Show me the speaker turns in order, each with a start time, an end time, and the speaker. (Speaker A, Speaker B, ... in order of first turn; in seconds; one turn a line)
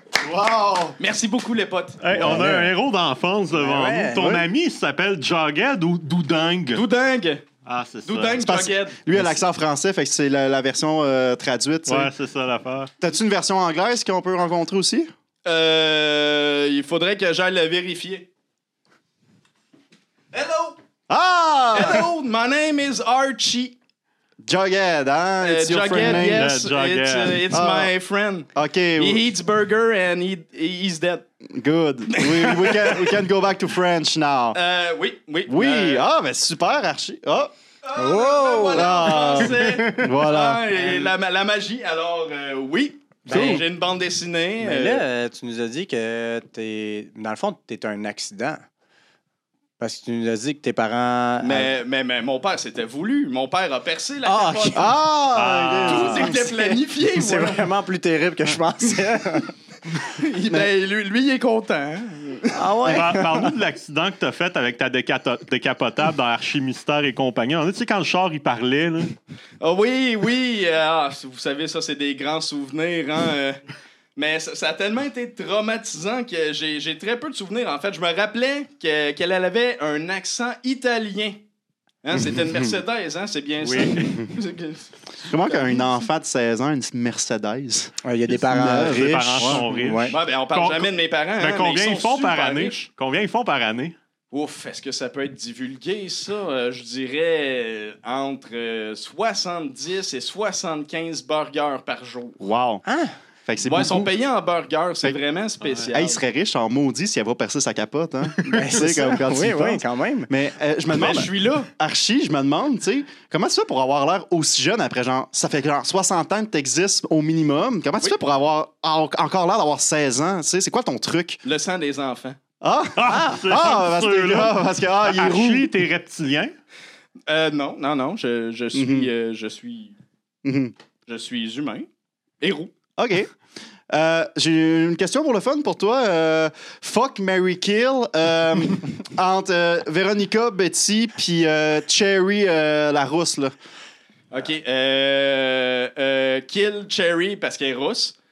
Speaker A: 0.2-1.0
Speaker B: 1.0-2.0
Speaker C: 2.0-6.8
Speaker D: 2.1-2.7
Speaker A: 2.2-2.5
Speaker D: 3.5-4.4
Speaker A: 4.2-4.5
Speaker B: 6.7-7.5
Speaker C: 7.6-8.5
Speaker B: 8.1-9.0
Speaker A: 8.4-12.1
Speaker C: 11.9-12.9
Speaker A: 13.0-15.1
Speaker B: 15.4-18.3
Speaker B: 20.3-20.8
Speaker A: 21.1-22.1
Speaker B: 21.7-23.8
Speaker A: 24.4-26.5
Speaker B: 25.4-31.3
Speaker C: 26.0-27.4
Speaker A: 27.5-27.9
Speaker A: 28.6-29.3
Speaker A: 31.4-34.6
Speaker B: 32.1-33.2
Speaker B: 34.5-36.1
Speaker A: 35.5-37.5
Speaker B: 37.8-45.0
Speaker D: 38.0-39.2
Speaker A: 38.7-40.8
Speaker D: 43.3-43.6
Speaker A: 43.3-43.6
Speaker D: 44.6-48.6
Speaker D: 49.8-51.7
Speaker B: 51.4-54.9
Speaker D: 54.2-54.9
Speaker A: 54.7-56.4
Speaker C: 55.3-56.3
Speaker B: 55.9-57.7
Speaker D: 56.1-59.5
Speaker B: 60.0-62.6
Speaker D: 62.5-63.5
Speaker C: 62.9-69.1
Speaker B: 69.6-73.6
Speaker B: 74.2-81.4
Speaker B: 82.0-85.9
Speaker A: 82.2-82.8
Speaker C: 83.7-83.9
Speaker A: 85.2-89.7
Speaker D: 88.0-90.2
Speaker C: 88.6-94.0
Speaker B: 90.1-92.8
Speaker B: 94.3-102.4
Speaker A: 102.4-102.8
Speaker D: 102.8-103.2
Speaker A: 103.5-104.1
Speaker B: 103.6-106.2
Speaker C: 105.6-105.9
Speaker A: 105.9-121.4
Speaker D: 108.4-110.3
Speaker B: 110.9-111.7
Speaker B: 121.4-122.4
Speaker A: 122.6-125.7
Speaker C: 123.0-126.5
Speaker B: 127.3-129.9
Speaker A: 128.7-129.1
Speaker A: 130.4-130.7
Speaker B: 131.1-131.9
Speaker B: 132.4-132.7
Speaker A: 133.0-133.3
Speaker A: 133.9-143.5
Speaker B: 144.3-148.2